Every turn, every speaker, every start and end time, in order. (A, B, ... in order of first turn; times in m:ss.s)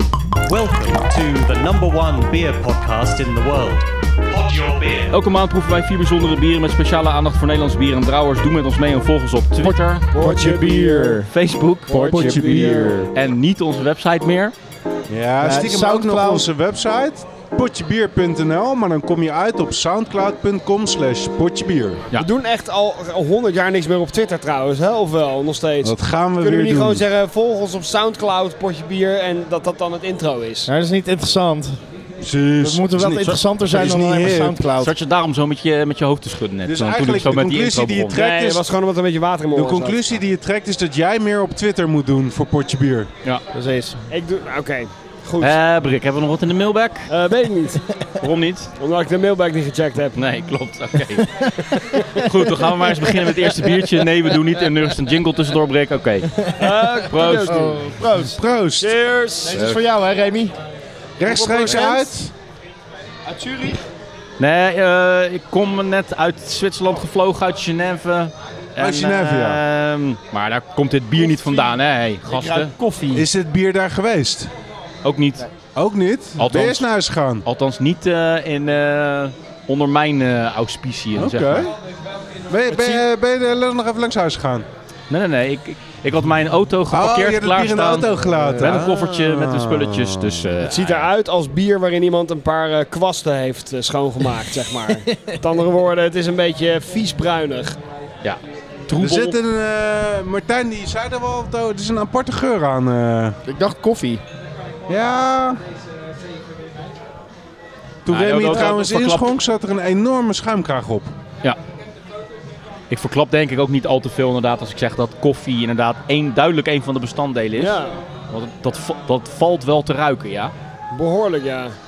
0:00.5-0:05.1 A
0:05.1-0:10.1 B
0:09.6-0:11.3 C
0:10.1-0:11.2 D
0:11.2-0:14.5 B
0:11.9-0:13.0 D
0:11.9-0:13.1 C
0:15.1-0:22.0 E
0:15.4-0:16.5 C
0:22.2-0:30.7 D
0:25.8-0:27.0 E
0:30.6-0:31.8 C
0:32.2-0:34.6 E
0:32.6-0:34.9 C
0:34.8-0:38.2 B
0:36.7-0:38.6 E
0:38.1-0:40.2 D
0:39.5-0:43.1 E
0:43.5-0:44.0 C
0:44.1-0:45.6 D
0:45.4-0:47.1 B
0:47.1-0:47.8 D
0:48.2-0:48.7 B
0:48.8-0:50.2 D
0:50.1-0:51.5 B
0:51.6-0:52.2 D
0:52.0-0:56.3 B
0:56.6-0:57.7 D
0:57.0-0:57.7 B
0:57.4-0:58.4 C
0:58.3-0:58.9 E
0:58.8-0:59.6 D
0:59.4-1:00.6 C
1:01.2-1:02.3 E
1:01.2-1:02.1 D
1:03.2-1:03.9 C
1:04.4-1:12.7 B
1:08.8-1:09.6 E
1:11.1-1:13.3 C
1:13.1-1:14.5 E
1:15.0-1:15.5 B
1:15.7-1:17.4 E
1:16.4-1:16.9 B
1:17.4-1:21.7 B
1:21.2-1:21.7 E
1:22.5-1:24.7 E
1:22.7-1:23.0 D
1:25.1-1:31.1 B
1:26.9-1:30.3 E
1:30.6-1:37.8 D
1:35.1-1:35.3 C
1:38.2-1:39.4 B
1:38.9-1:43.4 E
1:43.4-1:44.2 C
1:44.9-1:45.6 E
1:48.0-1:51.1 E
1:48.1-1:49.3 B
1:52.9-1:57.8 B
1:57.6-1:58.0 D
1:58.3-2:00.5 B
2:00.9-2:01.7 D